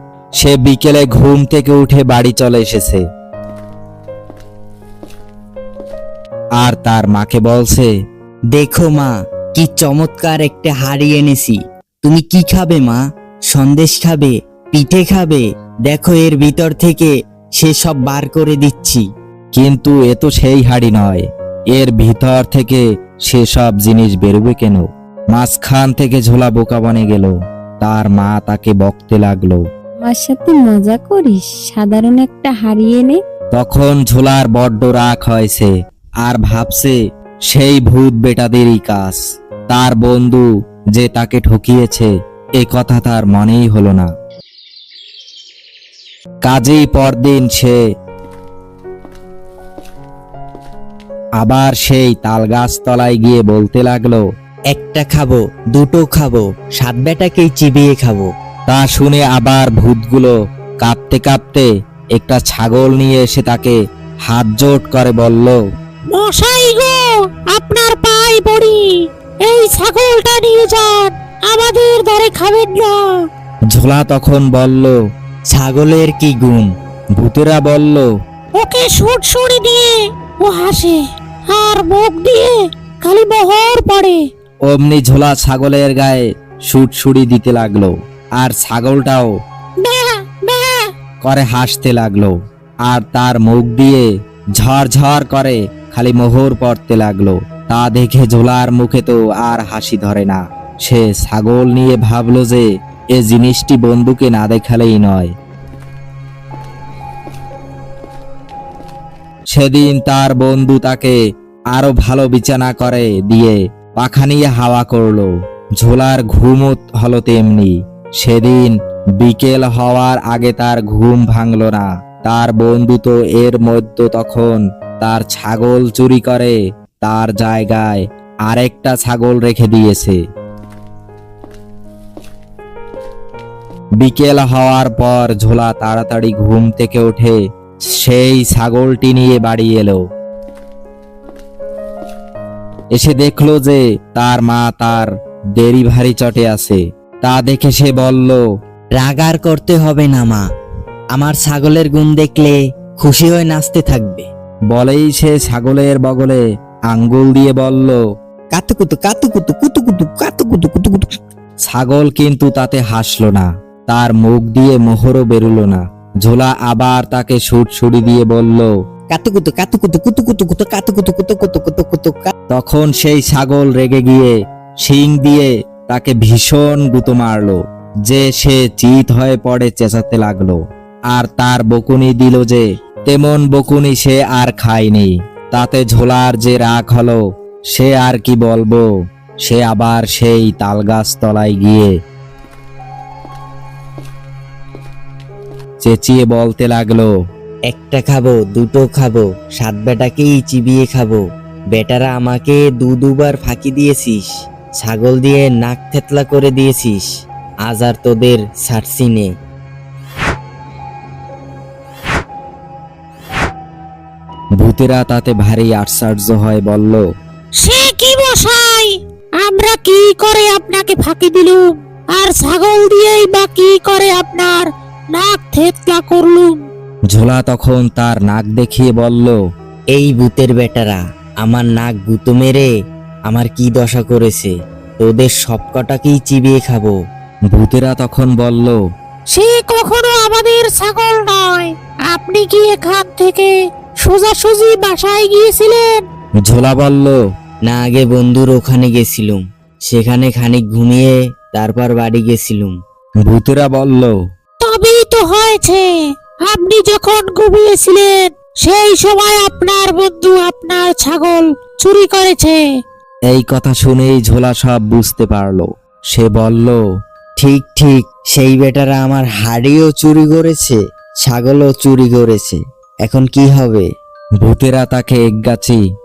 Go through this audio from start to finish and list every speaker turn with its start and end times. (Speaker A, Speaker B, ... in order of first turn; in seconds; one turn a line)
Speaker A: 0.4-3.0
Speaker A: 6.6-7.9
Speaker B: 8.5-19.1
Speaker A: 19.5-29.6
Speaker C: 30.1-33.2
Speaker A: 33.5-35.7
Speaker A: 36.2-37.0
Speaker A: 37.5-39.2
Speaker A: 39.7-44.1
Speaker A: 46.5-47.8
Speaker A: 51.4-54.2
Speaker B: 54.7-58.3
Speaker A: 58.7-63.8
Speaker A: 64.3-65.6
Speaker D: 66.1-68.8
Speaker D: 69.4-73.0
Speaker A: 73.7-75.0
Speaker B: 75.5-76.7
Speaker A: 77.2-78.1
Speaker D: 78.5-84.2
Speaker A: 84.7-89.3
Speaker D: 89.8-90.9
Speaker A: 91.2-92.3
Speaker A: 92.9-94.0
Speaker A: 94.6-105.3
Speaker A: 109.5-111.2
Speaker A: 111.7-130.2
Speaker A: 134.0-137.4
Speaker A: 138.0-140.0
Speaker A: 143.0-148.4
Speaker B: 149.0-150.4
Speaker B: 151.1-154.3
Speaker A: 154.7-158.0
Speaker B: 158.5-161.1
Speaker A: 161.7-168.7
Speaker B: 169.1-172.3
Speaker A: 172.5-174.3
Speaker A: 174.8-180.6
Speaker A: 181.1-187.2
Speaker A: 187.7-188.8
Speaker A: 189.5-191.9
Speaker A: 195.8-197.1
Speaker B: 197.7-207.1
Speaker B: 207.7-209.3
Speaker A: 214.6-217.0
Speaker D: 217.6-226.6
Speaker A: 227.1-229.4
Speaker B: 229.9-232.7
Speaker B: 233.3-236.9
Speaker A: 237.5-238.8
Speaker D: 239.3-246.0
Speaker A: 246.4-247.2
Speaker B: 247.7-252.8
Speaker A: 253.3-254.1
Speaker D: 254.6-255.8
Speaker D: 256.5-262.6
Speaker A: 263.3-266.8
Speaker B: 267.4-273.9
Speaker A: 274.4-275.8